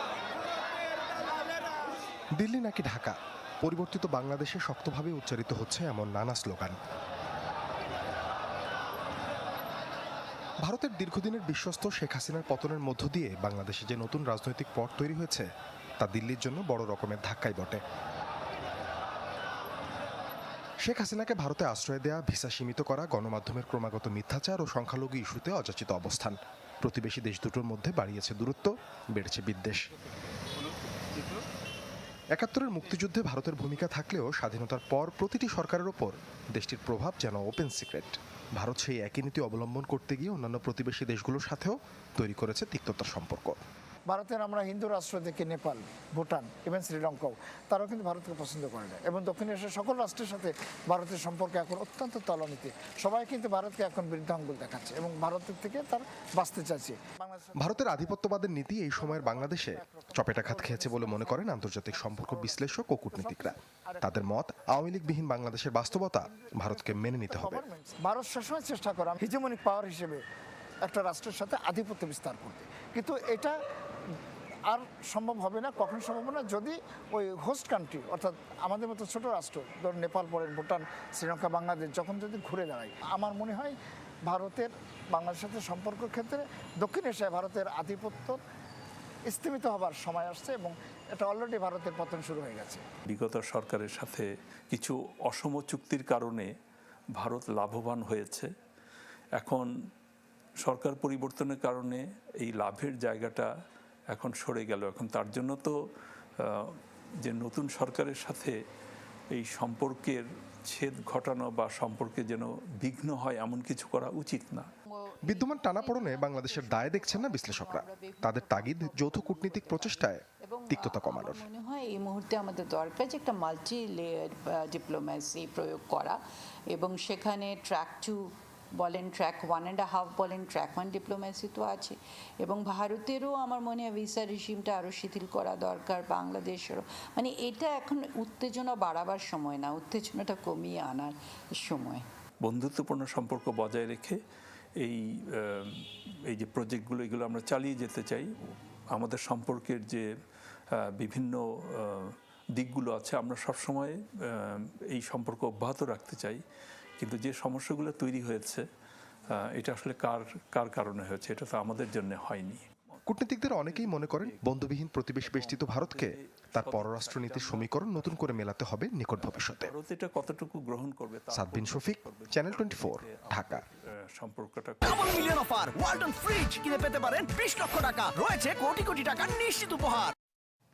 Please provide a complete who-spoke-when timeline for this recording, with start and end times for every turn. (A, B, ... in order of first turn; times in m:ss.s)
0:02.4-0:06.8 A
0:10.6-0:15.5 A
0:16.0-0:17.8 A
0:20.8-0:29.9 A
0:32.3-0:43.6 A
0:44.1-0:58.0 B
0:57.6-1:07.6 A
0:59.0-1:04.0 B
1:06.4-1:10.2 B
1:10.8-1:13.5 B
1:14.7-1:23.7 B
1:24.3-1:28.4 B
1:29.3-1:32.8 B
1:33.1-1:36.5 C
1:37.2-1:38.5 C
1:39.4-1:39.7 C
1:40.6-1:43.5 C
1:44.1-1:45.8 C
1:46.4-1:48.5 C
1:49.3-1:54.7 C
1:54.9-2:06.2 D
1:55.3-2:01.4 A
2:06.7-2:22.0 D
2:22.4-2:24.2 C
2:24.8-2:28.3 C
2:28.9-2:30.0 C
2:30.7-2:36.4 C
2:37.0-2:38.6 C
2:39.3-2:42.6 C
2:43.0-2:49.7 A
2:43.4-2:44.7 C
2:45.2-2:48.3 C
2:49.2-2:55.1 C
2:51.3-2:53.6 A
2:54.8-3:00.1 E